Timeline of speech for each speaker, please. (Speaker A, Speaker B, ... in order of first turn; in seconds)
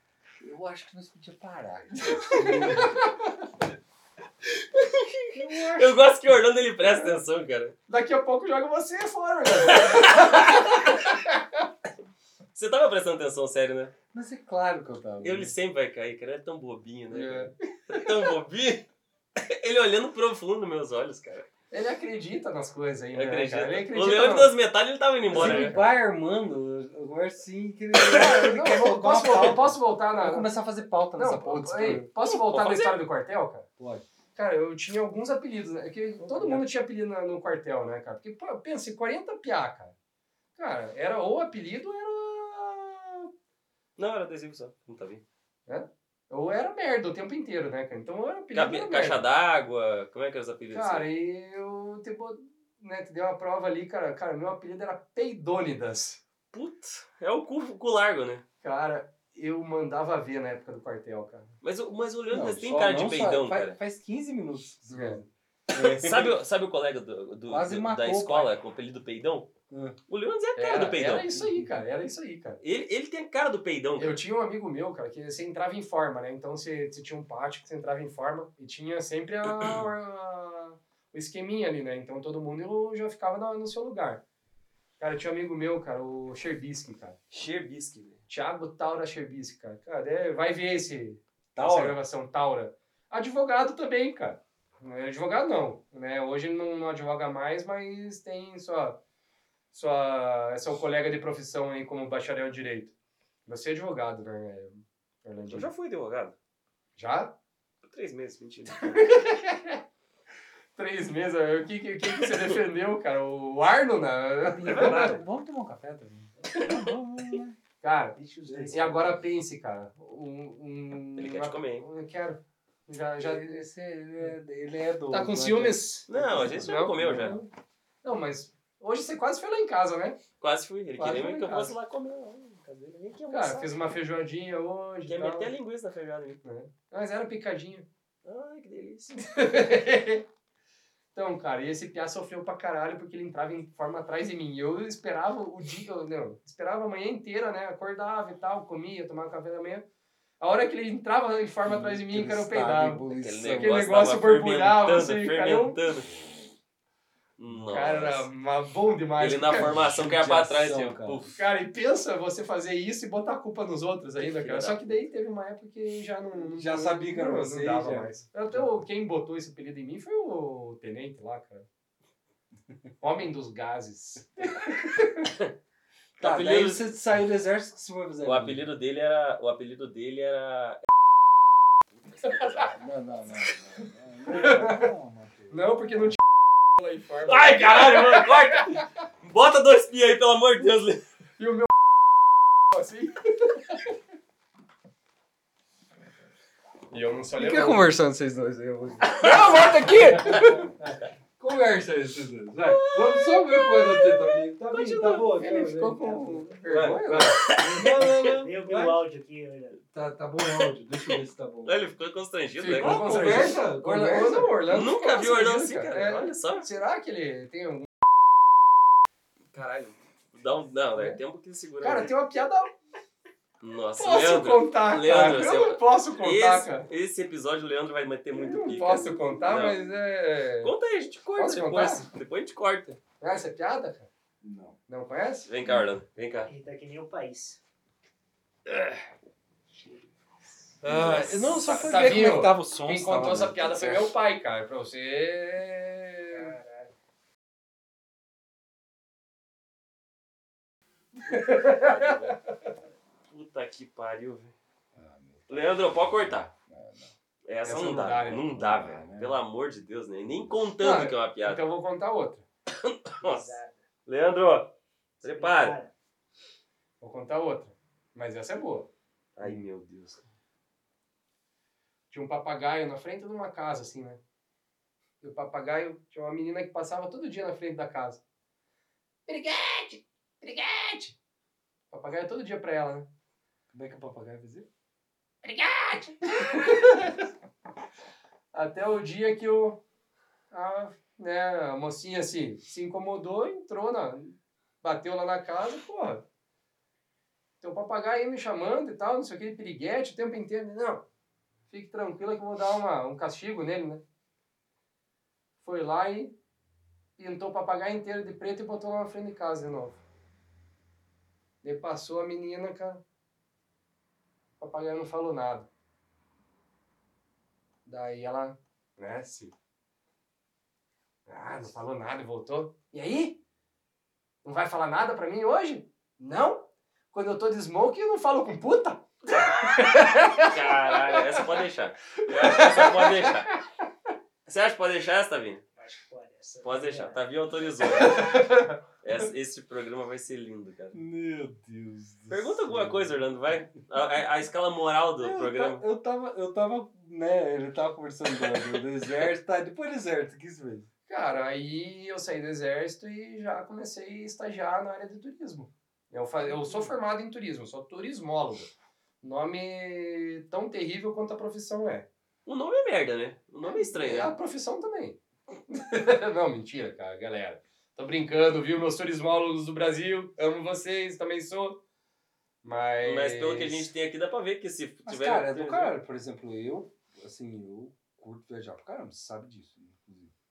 Speaker A: 0.4-3.0, 5.3-6.0, 14.1-15.5, 25.3-32.1, 33.8-34.0, 36.4-36.6, 62.3-66.4, 67.5-68.5, 69.7-70.0, 71.3-71.8, 91.5-92.0, 114.4-117.6, 118.5-119.2, 123.2-127.4, 151.7-153.9, 159.5-161.3, 166.3-168.7, 176.2-178.7, 182.7-186.2, 197.3-209.0, 209.8-211.8, 212.8-214.6, 234.4-234.8, 240.8-244.1, 254.9-257.1, 258.5-259.4, 283.7-284.7, 340.9-343.2, 345.2-350.9, 356.5-356.9, 375.1-380.3
Speaker B: 2.3-3.4, 7.9-11.6, 17.1-18.2, 21.7-24.5, 25.3-25.9, 28.0-30.5, 31.1-33.7, 34.4-39.9, 40.6-43.3, 45.7-49.2, 50.7-56.2, 58.6-61.5, 64.9-65.2, 70.6-72.6, 74.0-84.2, 85.0-87.2, 88.3-99.0, 99.7-102.9, 103.5-105.7, 107.0-107.3, 108.8-109.8, 110.8-115.2, 117.8-118.2, 118.7-123.7, 125.1-127.5, 128.0-130.2, 131.0-131.7, 133.3-135.5, 136.4-137.9, 139.2-140.2, 141.2-149.9, 150.4-153.1, 153.6-155.8, 157.7-159.8, 161.3-171.7, 173.0-175.3, 184.3-184.9, 185.5-186.2, 186.8-188.8, 191.4-191.7, 192.7-193.9, 196.9-197.9, 199.1-200.7, 203.7-204.0, 204.7-207.5, 212.6-217.9, 221.8-222.7, 224.0-226.9, 228.3-230.7, 231.4-232.1, 233.2-234.1, 234.9-235.5, 240.9-246.6, 251.2-252.3, 257.6-258.4, 260.8-262.4, 267.0-268.9, 272.1-274.2, 275.2-278.2, 279.3-281.2, 281.9-283.1, 285.4-287.2, 288.5-289.8, 290.5-296.2, 297.6-301.1, 301.7-304.0, 305.6-306.3, 307.2-310.0, 311.6-313.0, 314.6-315.7, 317.9-319.5, 321.3-323.4, 324.4-331.4, 332.2-333.6, 337.9-338.8, 351.1-362.1, 363.6-371.8, 372.6-373.9
Speaker C: 4.8-7.7, 9.5-11.0, 12.6-13.9, 15.2-18.9, 19.4-21.5, 23.1-25.7, 32.3-33.0, 44.0-45.2, 48.5-51.1, 56.5-58.4, 61.6-63.8, 65.8-69.5, 70.1-71.4, 72.6-74.2, 87.3-88.2, 105.5-106.4, 107.8-109.1, 112.1-112.6, 114.7-115.2, 121.2-121.8, 126.1-127.4, 130.4-133.7, 135.1-136.4, 138.2-139.2, 153.2-156.1, 157.4-158.3, 159.2-161.4, 164.2-165.0, 176.2-176.8, 178.2-180.8, 181.9-182.8, 187.3-191.0, 199.2-199.6, 202.7-204.1, 207.2-207.9, 210.5-213.6, 214.7-216.7, 219.5-222.1, 223.6-229.8, 230.6-233.0, 235.5-236.5, 240.9-241.8, 251.5-252.4, 253.3-254.6, 255.5-256.5, 257.5-261.6, 262.7-265.8, 269.4-270.2, 330.4-333.5, 334.5-335.6, 336.6-338.4, 339.0-341.0, 342.3-345.8, 362.5-364.4, 373.0-375.9
Speaker D: 118.2-119.1, 206.0-209.8, 236.5-237.6, 239.7-240.1, 246.3-246.9, 263.2-263.8, 265.2-265.9, 335.8-337.2